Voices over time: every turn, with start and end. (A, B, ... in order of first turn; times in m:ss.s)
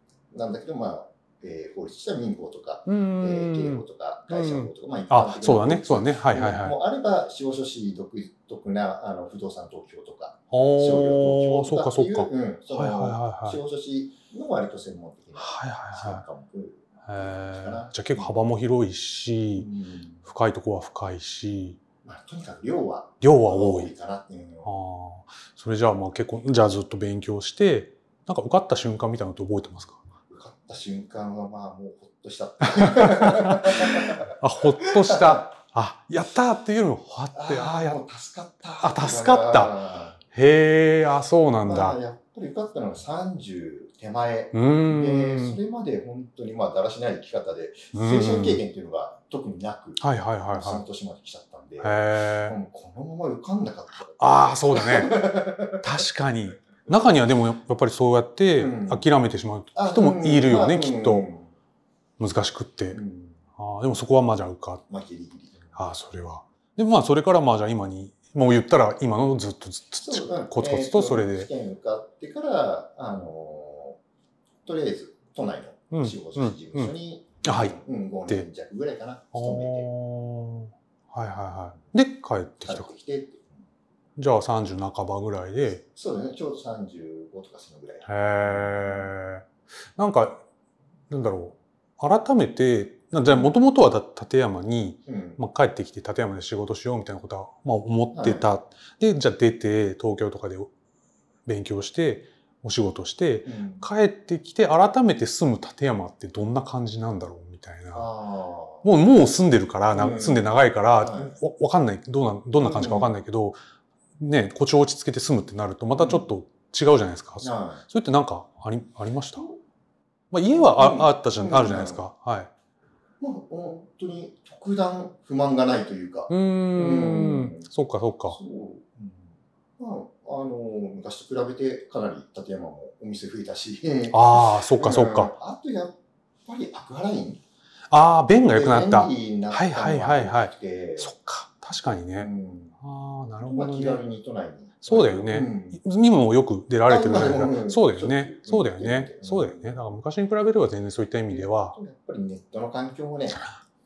0:00.3-0:18.4 A
0:02.9-0:06.8 B
0:10.5-0:13.6 B
0:15.4-0:16.2 B
0:17.1-0:19.7 B
0:19.6-0:20.2 A
0:20.2-0:21.8 B
0:22.0-0:24.8 A
0:23.2-0:23.9 B
0:24.6-0:30.0 B
0:30.3-0:35.5 A
0:32.7-0:38.0 B
0:37.3-0:40.2 A
0:38.8-0:39.8 B
0:40.3-0:42.0 B
0:41.6-0:55.8 A
0:44.5-0:45.6 B
0:47.9-0:48.6 B
0:50.0-0:50.8 B
0:51.8-0:52.6 B
0:54.2-0:55.2 B
0:55.7-1:01.3 B
0:58.6-0:59.0 A
0:59.8-1:01.5 A
1:02.2-1:03.0 B
1:02.9-1:03.4 A
1:03.6-1:04.8 B
1:04.9-1:05.8 A
1:05.8-1:11.5 B
1:10.0-1:14.0 A
1:14.7-1:19.9 A
1:15.9-1:17.8 B
1:19.3-1:22.9 B
1:22.6-1:23.5 A
1:24.2-1:25.8 B
1:25.7-1:29.1 A
1:28.1-1:30.4 B
1:31.1-1:40.7 B
1:35.1-1:35.4 A
1:38.1-1:38.5 A
1:41.5-1:48.1 B
1:43.5-1:43.9 A
1:47.9-1:48.8 A
1:48.8-1:53.6 B
1:49.9-1:51.4 A
1:52.6-1:53.1 A
1:54.2-1:59.4 B
1:56.0-1:56.3 A
1:57.4-1:57.8 A
2:00.3-2:02.5 B
2:00.5-2:02.0 A
2:03.2-2:07.7 A
2:06.3-2:08.4 B
2:08.3-2:17.4 A
2:14.1-2:15.3 B
2:17.9-2:22.3 B
2:18.3-2:21.1 A
2:22.2-2:22.8 A
2:22.8-2:24.0 B
2:23.4-2:25.8 A
2:24.8-2:31.8 B
2:26.9-2:29.9 A
2:31.3-2:33.5 A